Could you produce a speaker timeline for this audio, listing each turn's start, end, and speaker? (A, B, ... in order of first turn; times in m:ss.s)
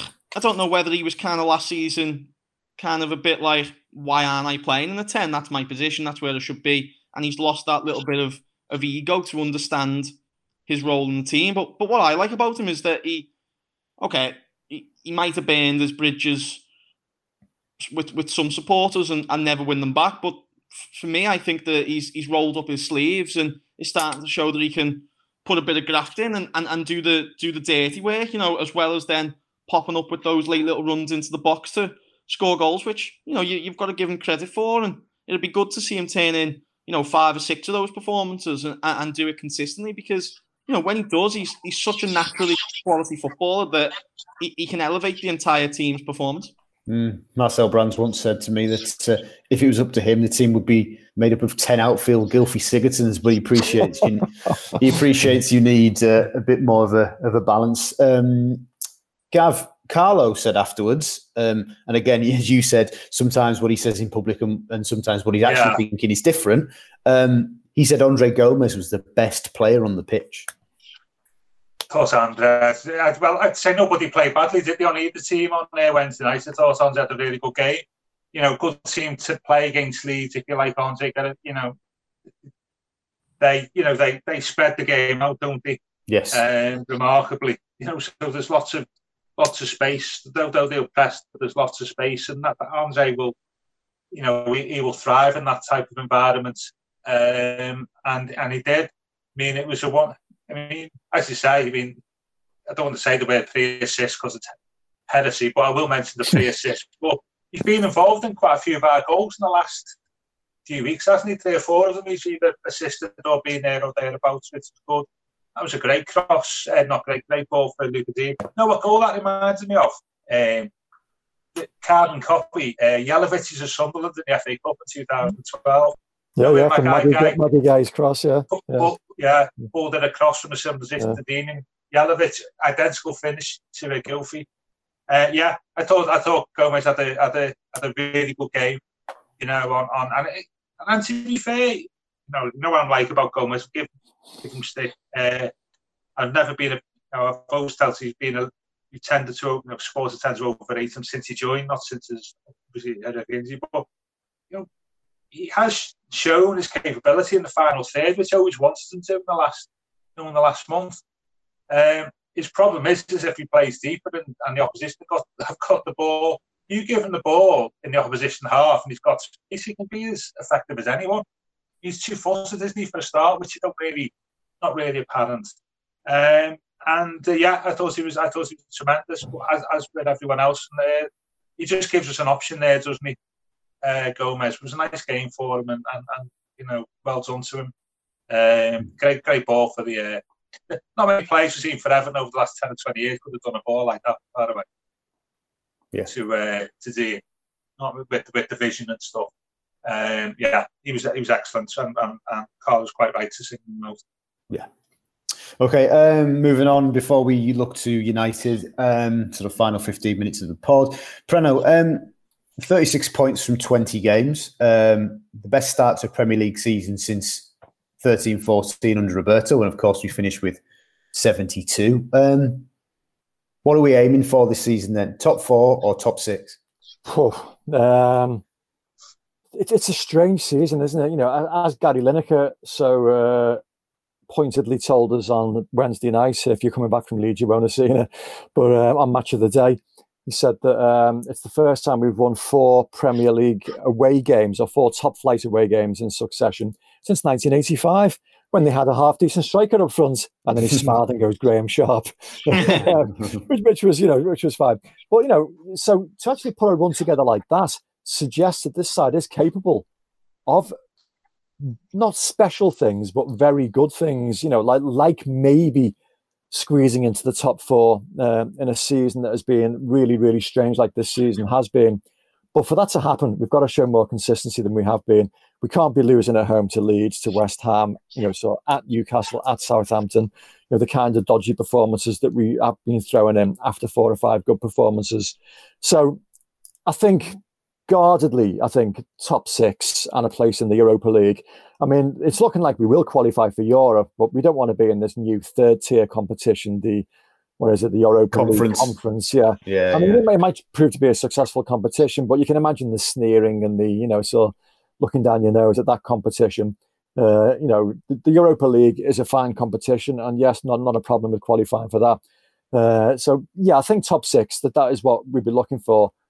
0:00.3-0:10.1 A
0:10.7-0:13.3 A
0:14.0-0:16.6 A
0:17.8-0:46.5 A
0:46.9-0:58.7 B
0:59.3-1:10.5 B
1:05.4-1:05.8 C
1:11.9-1:21.8 C
1:23.4-1:25.8 C
1:26.1-1:26.4 B
1:26.3-1:28.9 C
1:29.4-1:33.4 C
1:34.1-1:42.0 C
1:42.7-1:44.5 C
1:45.1-1:50.0 C
1:50.6-2:00.7 C
2:01.6-2:07.4 C
2:06.4-2:08.9 D
2:08.5-2:14.4 C
2:15.1-2:18.8 C
2:19.4-2:23.9 C
2:24.4-2:25.5 C
2:26.2-2:33.9 C
2:35.3-2:41.0 C
2:41.7-2:51.2 C
2:51.8-2:55.5 C
2:56.1-3:03.2 C
3:03.8-3:07.7 C
3:08.3-3:14.6 C
3:16.1-3:17.2 C
3:17.8-3:19.3 C
3:19.8-3:24.0 C
3:25.6-3:37.5 B
3:38.0-3:40.6 B
3:41.1-3:42.6 B
3:43.6-3:46.6 B
3:47.0-3:48.4 D
3:49.5-3:53.6 D
3:54.3-4:19.9 D
4:12.5-4:12.9 A
4:20.5-4:20.8 D
4:21.6-4:25.9 D
4:26.5-4:32.0 D
4:32.5-4:46.2 D
4:46.9-4:57.0 D
4:57.6-5:12.2 D
4:58.3-4:58.9 B
4:59.6-5:00.2 B
5:12.7-5:16.1 D